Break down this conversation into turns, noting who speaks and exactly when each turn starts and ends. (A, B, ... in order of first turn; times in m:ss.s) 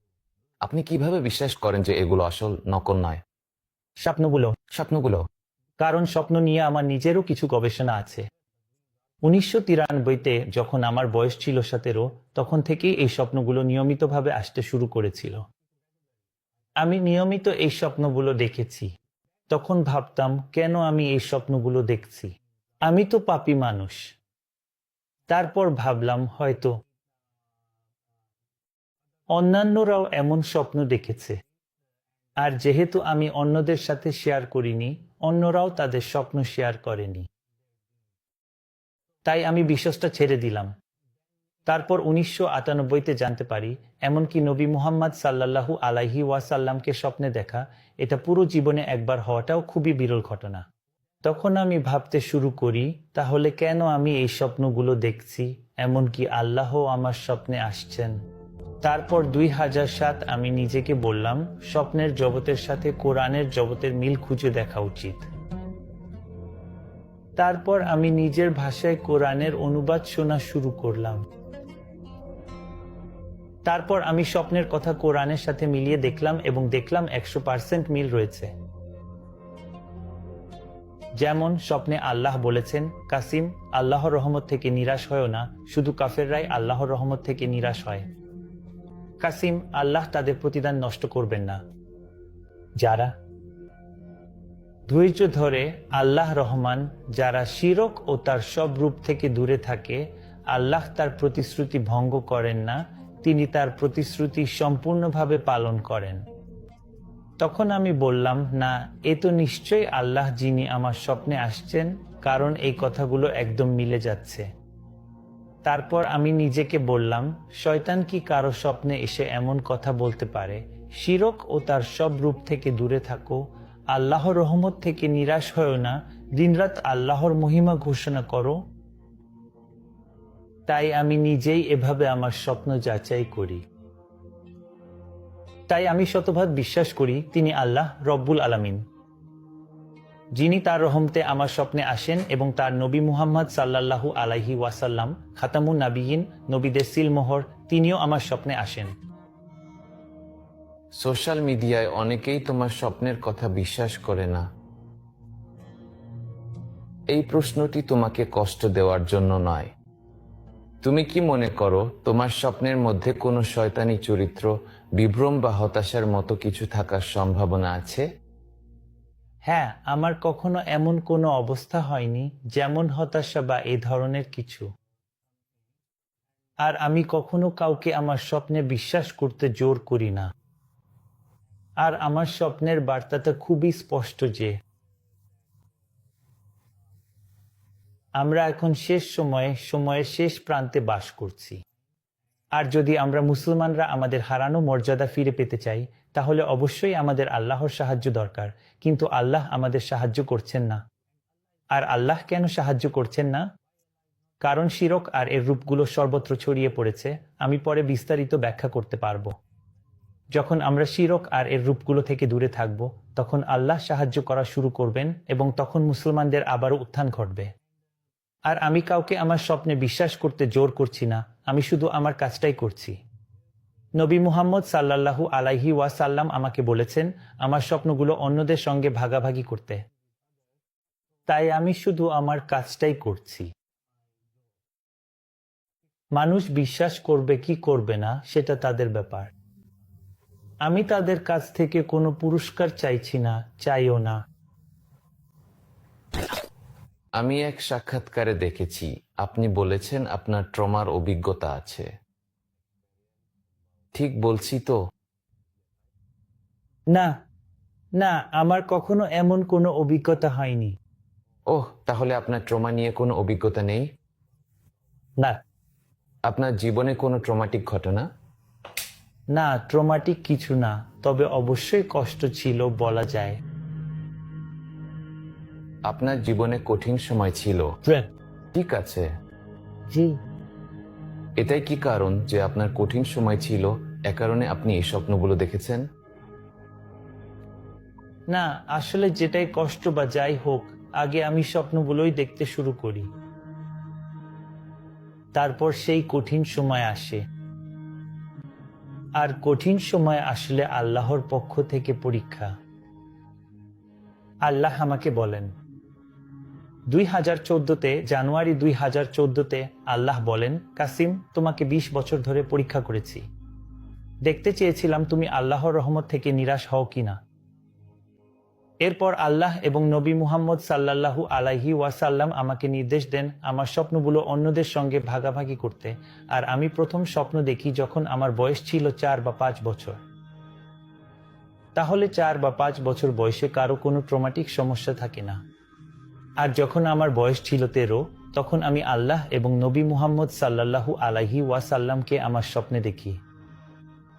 0:00.6-0:03.2 A
0:04.0-0:04.6 B
0:04.7-0:05.2 A
0:05.8-0:08.2 B
0:09.2-0:15.4 B
0:16.8-0:18.9 B
0:19.5-0:22.3 B
0:22.8-0:24.1 B
0:25.3-0:26.7 B
0:29.3-0:31.4 B
0:32.4-0:37.3 B
0:39.2-0:40.7 B
0:41.7-0:50.6 B
0:51.2-0:58.1 B
0:58.8-1:05.3 B
1:07.4-1:11.2 B
1:13.6-1:18.5 B
1:21.2-1:28.0 B
1:29.2-1:31.6 B
1:32.8-1:33.1 B
1:34.9-1:46.2 B
1:47.4-1:54.5 B
1:55.6-2:08.6 B
2:10.7-2:13.6 B
2:15.7-2:18.8 B
2:20.4-2:28.9 B
2:31.0-2:34.4 A
2:37.1-2:39.7 A
2:40.8-2:48.0 A
2:49.5-2:54.7 B
2:56.6-3:00.3 B
3:01.8-3:04.6 B
3:08.2-3:11.6 B
3:12.6-3:20.8 B
3:21.7-3:23.4 B
3:24.4-3:29.3 B
3:30.3-3:37.5 B
3:38.5-3:43.0 B
3:44.0-3:49.8 B
3:51.3-3:53.5 B
3:56.2-3:59.3 B
4:00.7-4:04.2 B
4:07.2-4:11.9 A
4:13.9-4:14.8 A
4:18.0-4:20.8 B
4:21.5-4:23.9 A
4:26.3-4:28.1 A
4:29.3-4:33.4 B
4:35.9-4:37.7 A
4:38.5-4:39.1 A
4:39.9-4:40.1 B
4:41.4-4:45.8 A
4:48.3-4:53.1 B
4:55.3-4:57.2 B
4:59.2-5:02.5 B
5:04.4-5:05.5 B
5:06.9-5:13.2 B
5:14.2-5:17.2 B
5:18.8-5:30.0 B
5:31.8-5:35.4 B
5:36.4-5:43.2 B